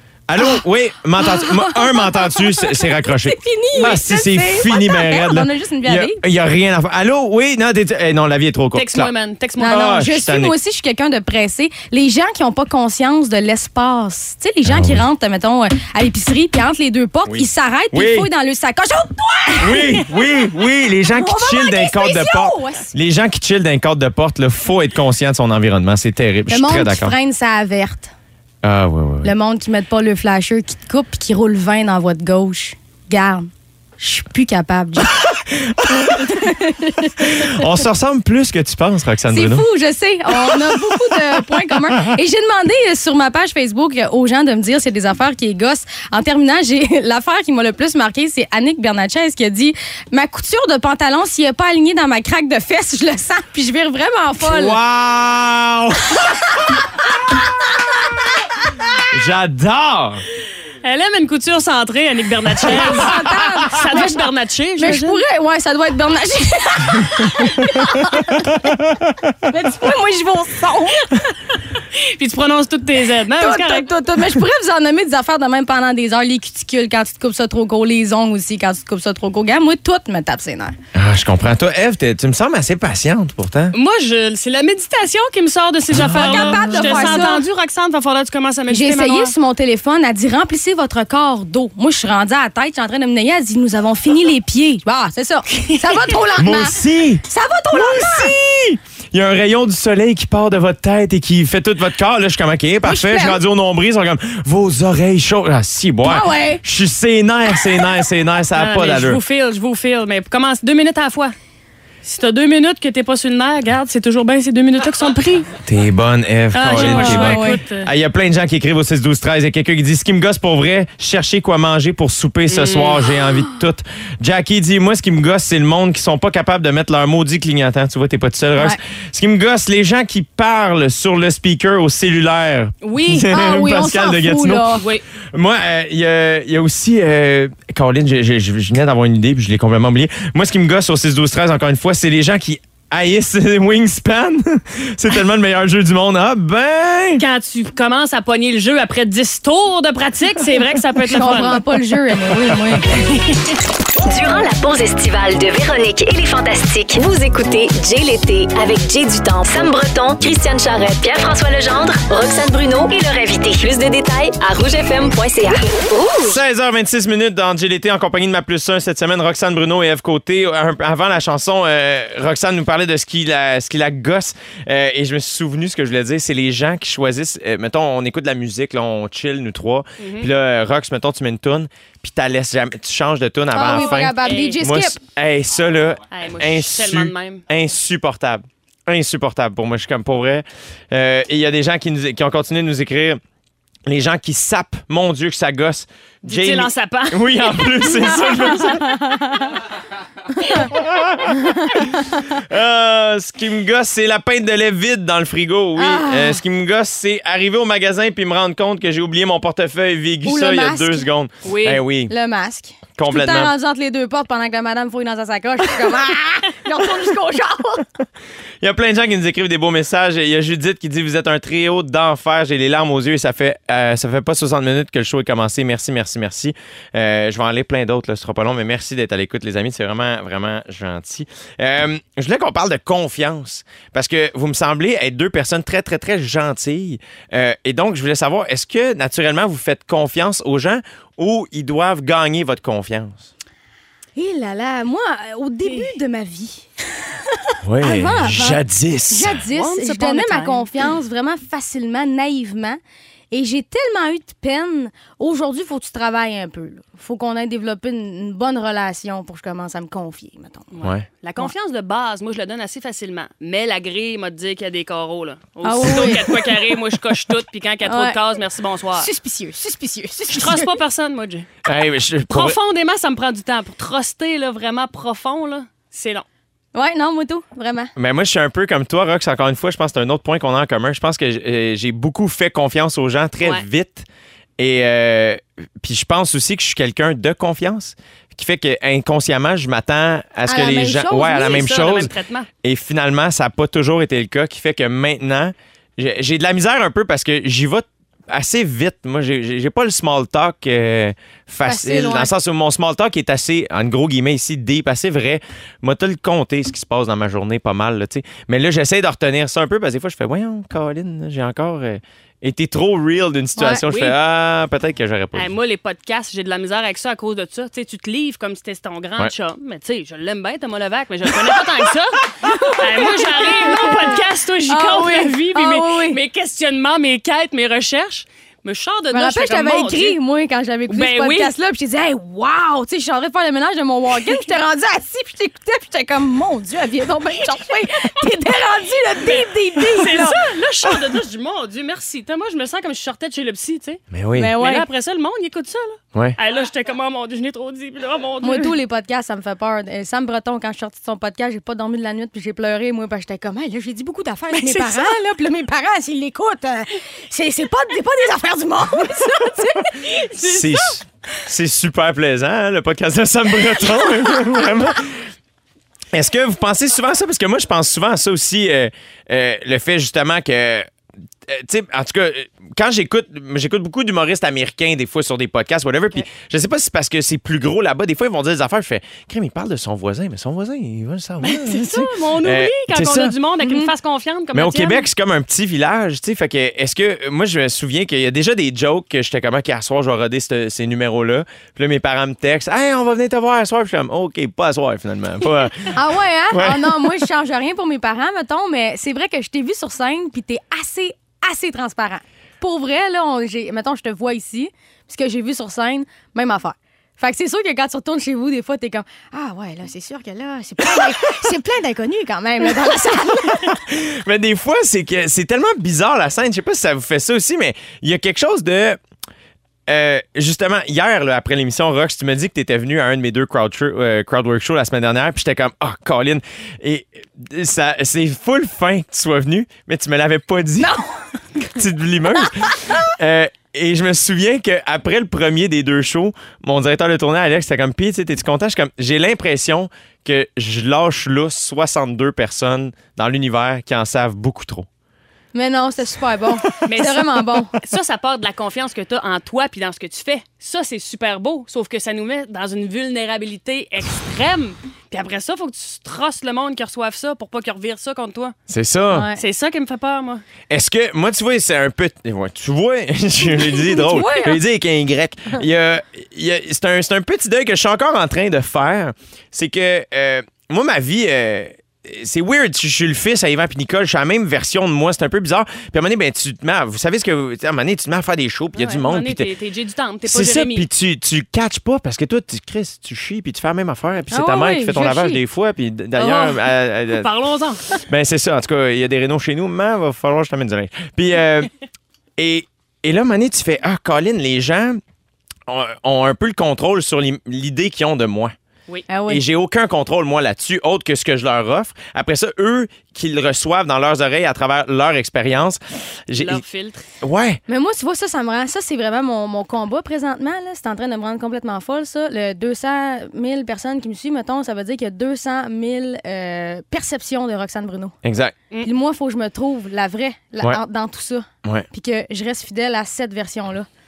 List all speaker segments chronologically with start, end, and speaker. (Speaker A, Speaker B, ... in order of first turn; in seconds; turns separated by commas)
Speaker A: 0.3-9.1, Speaker B: 1.2-6.2, Speaker C: 8.7-9.8, Speaker B: 9.6-20.0, Speaker A: 9.7-10.6, Speaker A: 14.7-15.0, Speaker A: 17.3-18.3, Speaker A: 19.6-27.1, Speaker B: 21.1-22.9, Speaker B: 26.5-28.1, Speaker A: 28.6-29.3, Speaker B: 29.2-35.1, Speaker A: 35.1-36.4, Speaker B: 36.0-37.6, Speaker A: 37.2-39.7, Speaker B: 39.3-54.8, Speaker A: 40.5-41.4, Speaker A: 54.4-56.8, Speaker A: 59.1-60.2, Speaker C: 60.8-65.2, Speaker A: 62.6-63.2, Speaker B: 62.7-64.2, Speaker B: 64.8-68.6, Speaker B: 69.5-71.3, Speaker C: 71.9-73.9, Speaker B: 73.4-80.8, Speaker A: 80.9-83.8, Speaker C: 83.7-89.3, Speaker A: 85.9-87.2, Speaker B: 85.9-87.4, Speaker B: 88.7-98.3, Speaker A: 96.4-109.2, Speaker B: 102.8-103.4, Speaker B: 106.0-106.6, Speaker C: 108.6-111.3, Speaker C: 112.0-115.5, Speaker A: 115.7-147.2, Speaker C: 116.5-117.9, Speaker B: 116.8-117.6, Speaker C: 122.5-123.1, Speaker B: 132.9-134.8, Speaker C: 147.2-151.6, Speaker B: 151.1-153.2, Speaker D: 154.0-166.4, Speaker A: 166.2-193.2, Speaker C: 180.0-180.3, Speaker B: 183.5-185.0, Speaker C: 183.7-184.6, Speaker C: 186.1-187.4, Speaker A: 193.9-198.9, Speaker C: 196.3-198.7, Speaker B: 198.1-199.5, Speaker B: 200.3-200.7, Speaker A: 200.7-201.3, Speaker B: 201.4-202.1, Speaker A: 202.3-212.1, Speaker B: 205.8-206.4, Speaker B: 210.3-211.1, Speaker C: 211.4-211.8, Speaker B: 212.1-217.9, Speaker A: 213.0-213.5, Speaker A: 218.6-243.3, Speaker B: 244.2-246.7, Speaker B: 247.3-252.8, Speaker A: 247.6-249.4, Speaker C: 249.5-250.7, Speaker B: 253.3-260.7, Speaker C: 260.7-269.1, Speaker B: 265.6-266.8, Speaker B: 267.9-268.2, Speaker B: 269.0-270.7, Speaker C: 270.3-271.5, Speaker A: 271.6-272.6, Speaker C: 272.3-276.2, Speaker B: 276.8-277.9, Speaker A: 278.0-284.1, Speaker A: 284.6-292.1, Speaker B: 290.5-291.6, Speaker C: 291.2-292.5, Speaker A: 292.6-315.5, Speaker B: 301.7-302.3, Speaker B: 313.6-313.8, Speaker C: 313.9-314.2, Speaker C: 315.4-330.2, Speaker B: 322.4-326.2, Speaker B: 329.1-340.4, Speaker C: 330.9-331.5, Speaker C: 339.2-344.0, Speaker A: 344.1-344.6, Speaker B: 344.4-344.9, Speaker C: 344.6-348.8, Speaker B: 348.4-360.4, Speaker C: 354.5-355.1, Speaker C: 360.4-360.9, Speaker A: 360.4-365.3, Speaker A: 366.1-370.9, Speaker A: 371.5-383.3, Speaker C: 381.4-385.0, Speaker B: 383.6-383.9, Speaker A: 384.5-397.2, Speaker B: 395.9-413.8, Speaker A: 413.3-419.0, Speaker A: 419.9-430.9, Speaker B: 430.8-431.8, Speaker A: 431.7-444.9, Speaker B: 445.5-447.8, Speaker C: 446.9-458.6, Speaker A: 458.7-459.3, Speaker B: 459.1-459.4, Speaker C: 459.4-460.4, Speaker A: 460.7-479.5, Speaker B: 463.5-464.6, Speaker C: 478.8-480.9, Speaker A: 480.3-487.3, Speaker B: 484.3-485.4, Speaker C: 486.2-487.9, Speaker A: 488.0-491.7, Speaker A: 492.4-495.0, Speaker A: 495.7-498.6, Speaker B: 499.1-499.4, Speaker A: 499.3-506.6, Speaker C: 506.4-507.1, Speaker A: 507.2-507.6, Speaker B: 507.7-518.2, Speaker A: 518.2-518.5, Speaker B: 518.8-523.9